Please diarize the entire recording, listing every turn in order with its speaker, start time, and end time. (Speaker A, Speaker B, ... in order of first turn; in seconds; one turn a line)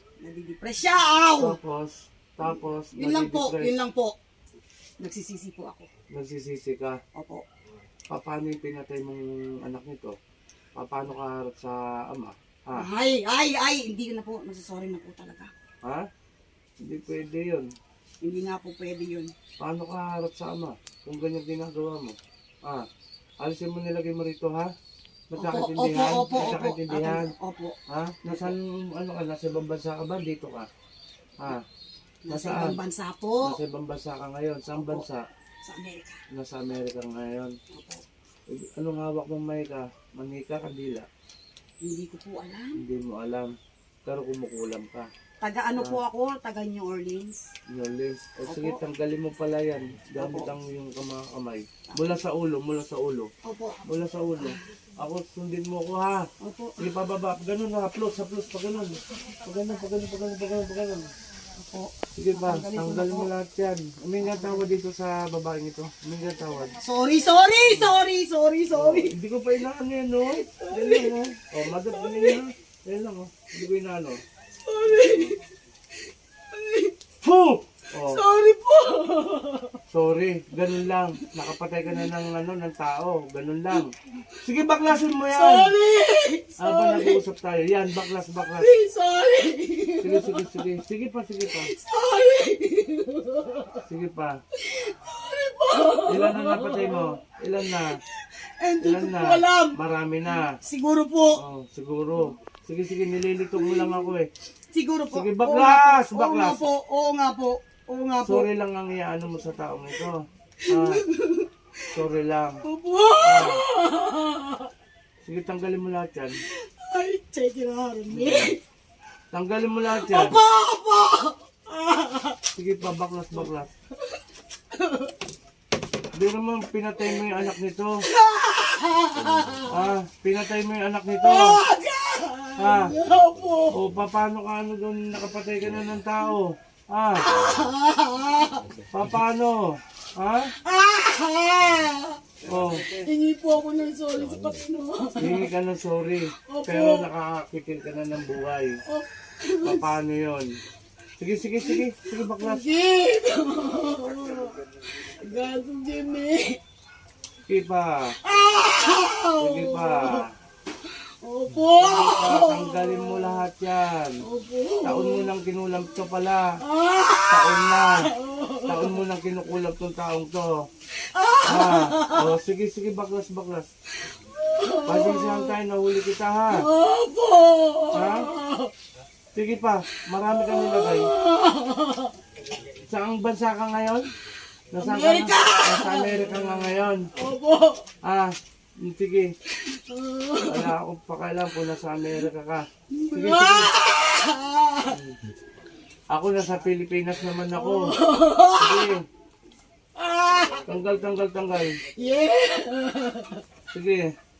Speaker A: 0.2-1.6
Speaker B: 1.4-3.8
Speaker A: 2.9-4.2
Speaker A: 5.0-5.9
Speaker B: 6.1-7.0
Speaker A: 7.1-7.5
Speaker B: 8.1-10.2
Speaker B: 10.8-12.9
Speaker A: 12.8-15.5
Speaker B: 15.8-16.1
Speaker B: 16.8-17.7
Speaker A: 18.2-19.3
Speaker B: 19.6-22.9
Speaker B: 23.4-24.7
Speaker B: 25.3-27.3
Speaker A: 25.4-28.6
Speaker B: 27.9-30.7
Speaker A: 32.2-33.6
Speaker B: 32.3-32.8
Speaker B: 33.4-35.2
Speaker A: 34.8-35.1
Speaker A: 35.6-36.2
Speaker B: 36.3-37.5
Speaker A: 37.7-38.0
Speaker B: 38.5-41.1
Speaker A: 41.8-42.8
Speaker B: 42.8-43.5
Speaker B: 44.1-45.1
Speaker A: 45.4-47.5
Speaker B: 45.8-46.0
Speaker B: 47.7-53.3
Speaker A: 48.5-48.8
Speaker A: 50.2-50.5
Speaker A: 51.9-52.2
Speaker A: 53.4-53.8
Speaker B: 53.9-56.2
Speaker A: 56.4-56.9
Speaker B: 56.8-61.1
Speaker A: 61.6-63.3
Speaker B: 62.1-66.8
Speaker A: 64.2-64.7
Speaker A: 66.8-69.1
Speaker B: 67.7-68.0
Speaker B: 68.7-74.2
Speaker A: 70.3-71.2
Speaker A: 71.7-72.4
Speaker A: 74.6-75.5
Speaker B: 75.0-75.4
Speaker A: 76.5-76.9
Speaker B: 77.2-78.2
Speaker A: 78.0-79.8
Speaker B: 79.9-83.9
Speaker A: 81.9-82.2
Speaker B: 84.4-85.8
Speaker A: 85.2-87.2
Speaker B: 86.6-88.7
Speaker A: 88.6-90.7
Speaker B: 90.0-91.7
Speaker A: 91.5-93.8
Speaker B: 93.8-94.4
Speaker A: 94.6-97.1
Speaker B: 96.1-98.0
Speaker A: 97.7-99.8
Speaker B: 98.8-100.5
Speaker A: 100.4-101.4
Speaker B: 101.4-104.3
Speaker A: 103.6-104.1
Speaker A: 104.7-108.5
Speaker B: 105.1-106.7
Speaker B: 108.2-111.0
Speaker A: 110.7-111.5
Speaker B: 111.9-112.6
Speaker A: 112.6-114.7
Speaker B: 113.2-113.6
Speaker B: 115.2-116.4
Speaker A: 116.5-118.6
Speaker B: 118.1-118.5
Speaker B: 119.3-120.4
Speaker A: 119.9-122.4
Speaker B: 122.5-123.7
Speaker A: 124.7-125.1
Speaker B: 126.1-128.0
Speaker A: 127.0-127.5
Speaker A: 128.1-129.9
Speaker B: 129.7-131.6
Speaker A: 131.2-133.8
Speaker B: 132.6-133.0
Speaker B: 133.7-137.3
Speaker A: 137.2-138.7
Speaker B: 138.9-140.5
Speaker A: 140.6-142.2
Speaker B: 142.4-143.0
Speaker A: 142.8-145.5
Speaker B: 145.2-148.8
Speaker A: 146.5-147.1
Speaker A: 148.9-149.9
Speaker B: 149.6-150.5
Speaker B: 151.2-152.7
Speaker A: 151.6-156.6
Speaker B: 157.5-158.2
Speaker A: 158.2-160.2
Speaker B: 159.4-160.3
Speaker A: 160.8-163.4
Speaker B: 161.8-164.2
Speaker A: 164.2-165.3
Speaker B: 164.8-166.6
Speaker A: 166.6-169.0
Speaker B: 167.3-168.1
Speaker B: 168.7-170.5
Speaker A: 171.0-172.3
Speaker B: 171.4-173.7
Speaker A: 174.1-175.6
Speaker B: 174.8-176.7
Speaker A: 176.5-178.7
Speaker B: 177.9-178.3
Speaker B: 179.3-181.1
Speaker A: 180.4-182.1
Speaker B: 182.8-184.1
Speaker B: 184.7-187.1
Speaker A: 184.8-187.9
Speaker B: 188.0-189.3
Speaker A: 189.6-190.7
Speaker B: 190.4-193.7
Speaker A: 192.9-195.0
Speaker B: 194.9-195.2
Speaker B: 196.1-198.0
Speaker A: 197.5-198.9
Speaker B: 198.6-199.0
Speaker A: 200.0-200.7
Speaker B: 200.6-201.8
Speaker A: 202.0-203.4
Speaker B: 203.7-204.1